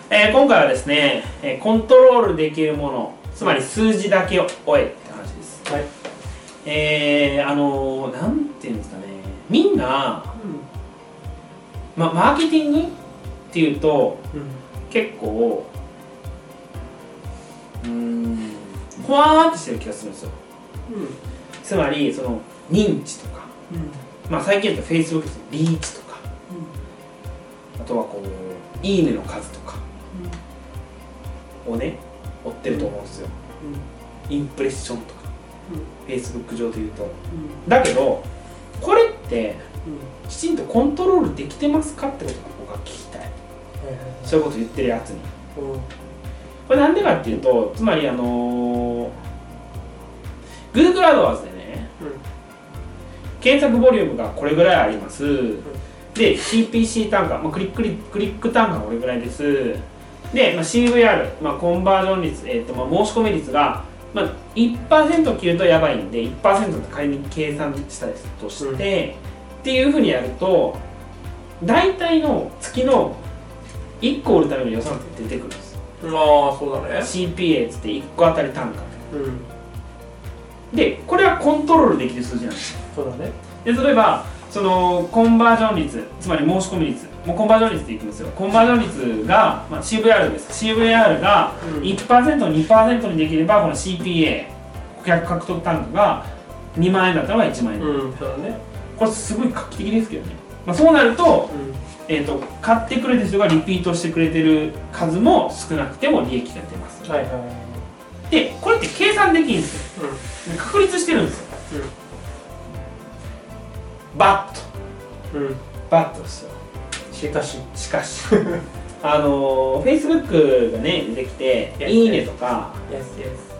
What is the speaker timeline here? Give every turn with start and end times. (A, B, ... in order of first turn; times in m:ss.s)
0:00.1-0:05.7 A
0:06.6-0:10.3 A
0:10.3-0:10.6 B
0:11.9-0:12.9 A
0:13.5-0:14.2 A
0:14.3-0:14.6 B
0:14.9-0:15.7 A
0:17.8-0:20.3 A
0:20.9-0:21.2 B
0:21.6-0:23.5 A
0:23.7-0:24.0 B
0:24.3-0:26.2 A
0:27.8-0:29.8 A
0:30.1-0:30.4 B
0:31.6-0:33.4 A
0:33.6-0:33.8 B
0:34.3-0:35.3 A
0:36.0-0:38.2 A
0:37.3-0:37.6 B
0:38.8-0:39.6 A
0:39.8-0:40.1 B
0:40.2-0:43.3 A
0:43.8-0:44.4 B
0:44.2-0:45.3 A
0:45.5-0:45.9 B
0:46.7-0:49.1 A
0:50.7-0:51.9 A
0:53.4-1:10.8 A
1:11.6-1:13.2 A
1:14.0-1:15.8 A
1:16.0-1:17.1 B
1:17.0-1:19.0 A
1:19.1-1:19.5 B
1:20.7-1:22.8 A
1:22.9-1:23.3 B
1:23.6-1:38.1 A
1:31.6-1:32.0 B
1:37.8-1:38.6 B
1:38.9-1:41.5 A
1:41.5-1:41.8 B
1:42.1-1:47.1 A
1:47.0-1:47.9 B
1:48.3-1:51.5 A
1:50.0-1:50.2 B
1:54.1-1:54.7 A
1:55.3-1:55.6 B
1:55.9-1:56.6 A
1:57.1-1:57.7 B
1:57.7-1:58.4 A
1:58.3-1:58.6 B
1:59.0-2:02.8 A
2:01.8-2:02.3 B
2:02.9-2:03.5 B